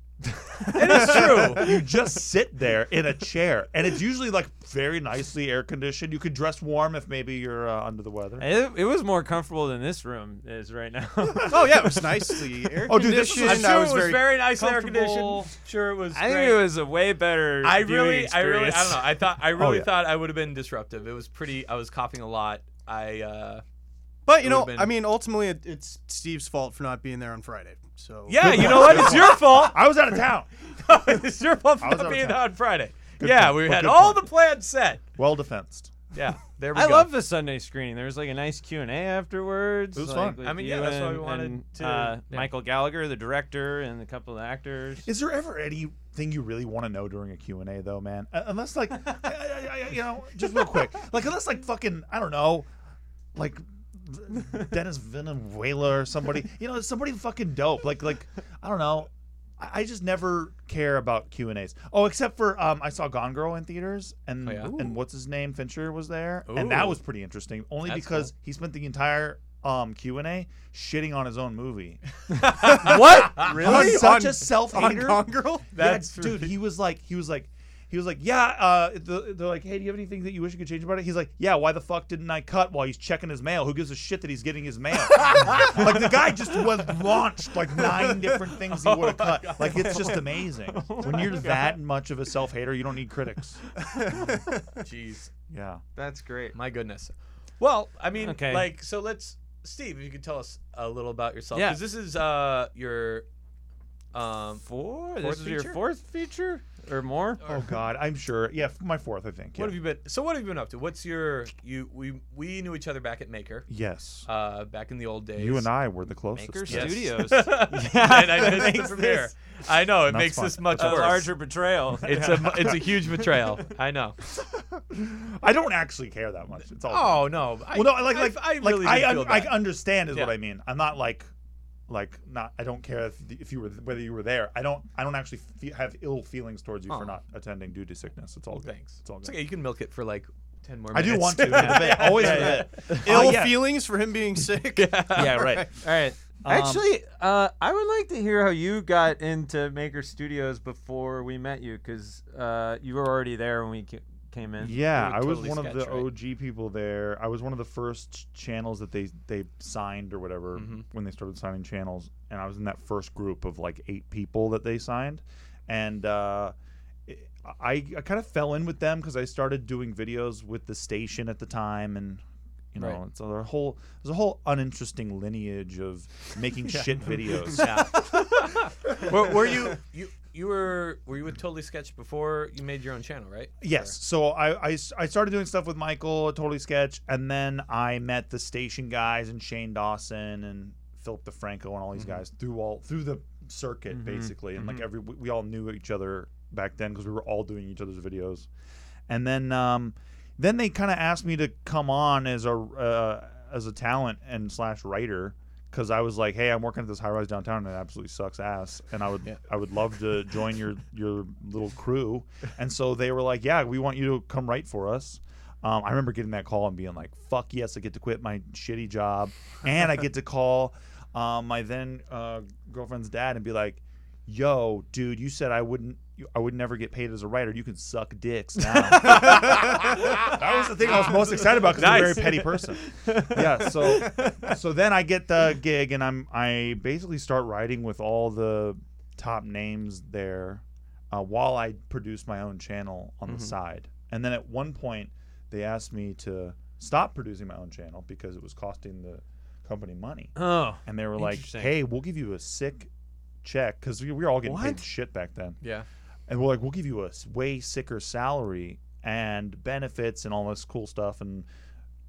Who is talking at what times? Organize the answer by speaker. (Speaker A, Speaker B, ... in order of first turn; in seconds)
Speaker A: 0.6-8.5, 12.8-13.7, 14.6-15.5, 19.5-19.9, 28.4-30.5, 31.8-32.4, 33.1-34.3, 35.2-35.9, 39.9-40.4, 45.0-52.7, 53.3-93.6, 95.5-95.8, 107.5-109.8, 113.7-114.3, 115.4-117.0, 120.0-121.2, 122.4-122.8, 124.3-131.3, 131.9-139.3, 140.9-143.7, 145.1-145.7, 146.4-146.8, 154.6-166.5, 167.1-172.2, 172.7-177.9, 183.6-198.5, 199.1-252.9, 253.4-255.6, 256.3-261.5
Speaker B: 0.7-1.8, 13.3-16.6, 17.6-23.6, 24.4-24.9, 28.3-29.8, 30.8-35.0, 36.1-37.1, 40.4-42.5, 64.4-65.0, 66.5-67.0, 67.8-68.3, 72.3-74.0, 75.7-76.5, 88.7-90.2, 94.8-95.3, 96.5-103.2, 104.1-104.7, 105.2-105.8, 109.6-113.7, 114.2-115.7, 116.7-121.3, 122.0-124.2, 126.8-130.3, 138.6-143.3, 144.8-145.6, 154.8-156.1, 160.5-160.8, 177.5-183.9, 228.8-230.2, 231.1-232.7
Speaker C: 8.4-13.1, 16.1-19.1, 36.7-45.1, 89.7-91.8, 96.0-96.5, 98.2-98.7, 101.5-101.8, 104.6-107.4, 116.3-119.3, 120.8-122.8, 141.6-142.9, 145.8-154.7, 193.9-194.8, 233.0-234.5, 250.3-251.7, 254.4-254.8
Speaker D: 11.4-14.3, 24.2-29.4, 72.5-75.7, 93.8-94.8, 142.2-145.7